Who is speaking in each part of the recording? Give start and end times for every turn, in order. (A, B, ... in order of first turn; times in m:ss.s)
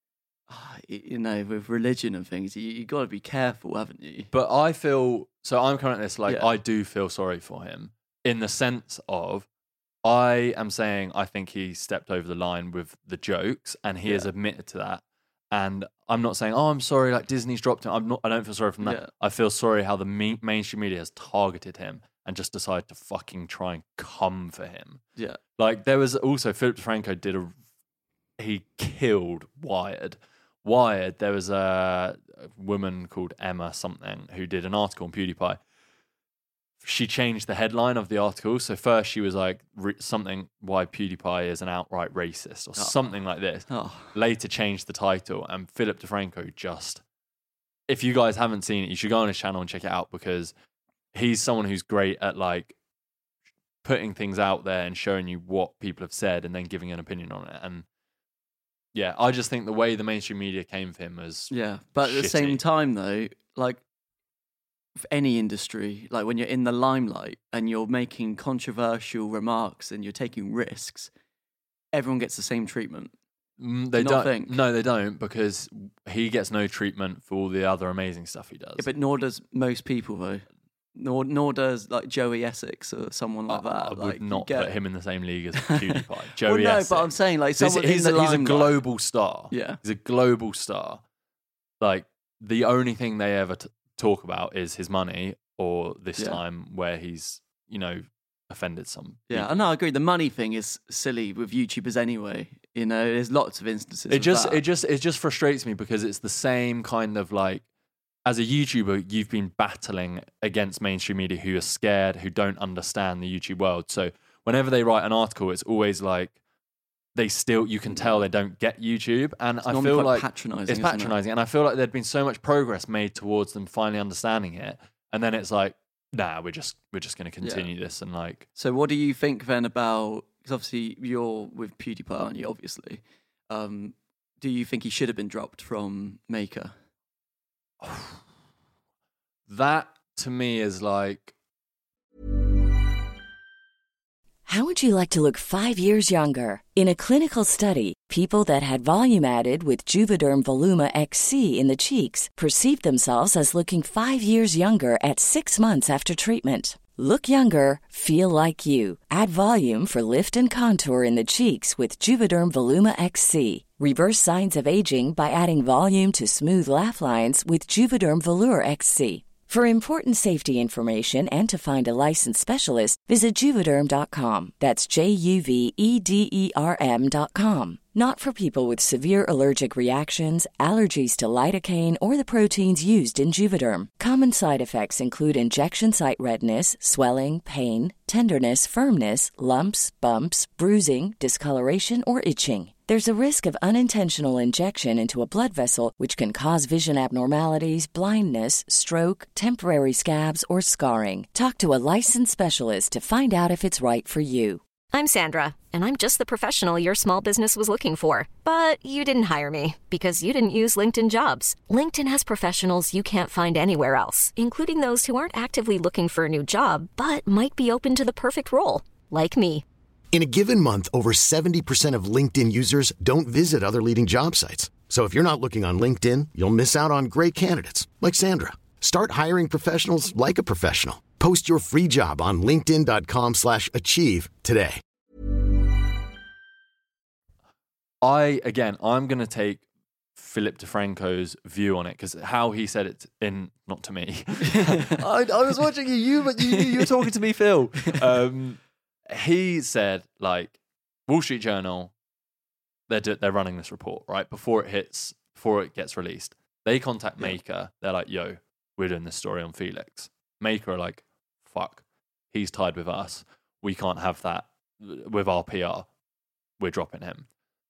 0:00.5-0:04.3 A
0:04.3-0:09.5 B
0:10.0-0:25.0 B
0:18.8-0:19.1 A
0:25.6-0:27.5 B
0:28.4-0:35.6 B
0:36.8-0:47.0 B
0:43.7-0:44.1 A
0:47.9-0:50.5 B
0:51.1-0:52.7 B
0:53.8-0:57.8 B
0:58.9-1:02.6 B
1:01.5-1:03.8 A
1:05.0-1:11.1 A
1:11.9-1:13.1 A
1:13.6-1:18.9 B
1:14.0-1:14.6 A
1:18.8-1:24.7 A
1:23.5-1:31.0 B
1:25.6-1:28.8 A
1:29.5-1:29.8 A
1:31.8-1:39.5 B
1:39.3-1:44.6 A
1:44.1-1:47.6 B
1:48.2-1:56.3 B
1:57.1-2:08.4 B
1:57.9-1:58.2 A
1:59.7-2:01.1 A
2:07.4-2:07.7 A
2:08.6-2:16.7 A
2:17.8-2:18.2 B
2:19.5-2:21.3 B
2:24.4-3:24.6 C
3:24.9-3:39.6 D
3:40.1-3:54.8 E
3:58.0-3:59.6 B
4:00.2-4:10.5 B
4:04.4-4:05.0 A
4:06.4-4:07.0 A
4:07.8-4:08.0 A
4:11.1-4:11.9 B
4:12.9-4:25.9 B
4:26.6-4:27.2 B